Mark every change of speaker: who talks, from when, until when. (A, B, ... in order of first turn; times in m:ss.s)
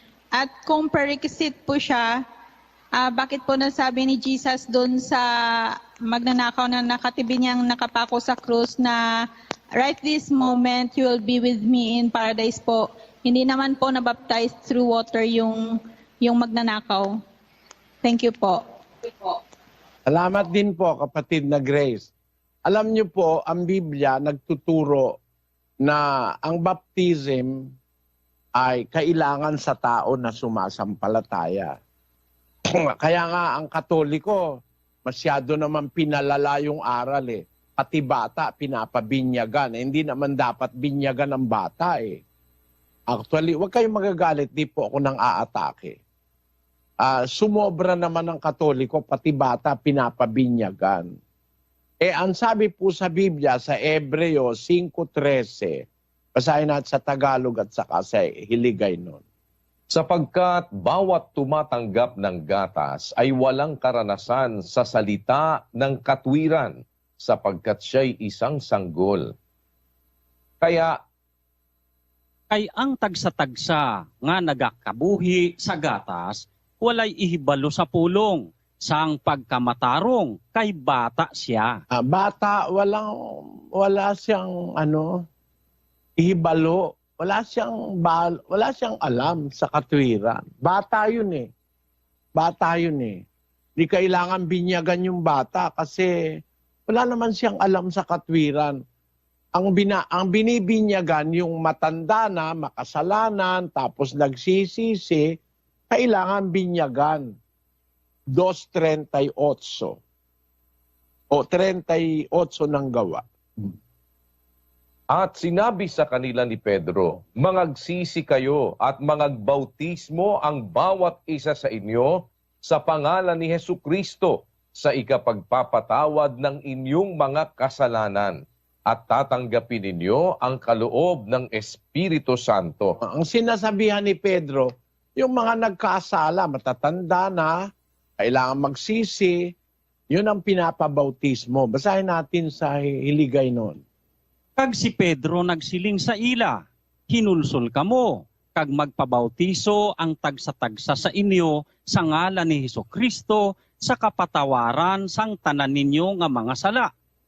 0:00.4-0:02.0 A
0:03.0-0:05.2 A
0:06.1-0:09.0 A
0:09.8-0:15.6 A
0:16.2-0:17.1 A
0:18.0-0:18.6 A
0:20.1-0:22.1 B
0:22.7-0:25.1 B
0:25.8-0:27.6 B
0:28.6-0:31.7 B
0:32.8-0:34.4 B
0:35.1-0:42.2 B
0:43.1-0:46.0 B
0:47.0-0:51.1 B
0:52.0-0:55.8 B
0:56.4-0:59.2 B
0:59.9-1:09.3 C
1:10.6-1:11.0 C
1:12.5-1:21.8 D
1:21.9-1:25.2 B
1:26.2-1:31.5 B
1:32.4-1:33.2 B
1:33.8-1:36.1 B
1:36.9-1:38.8 B
1:39.6-1:45.3 B
1:45.9-1:47.3 B
1:48.3-1:50.0 B
1:51.3-1:53.7 B
1:55.1-2:08.4 C
2:08.9-2:13.0 C
2:13.0-2:17.6 B
2:18.2-2:19.4 B
2:20.1-2:23.8 B
2:24.6-2:36.9 D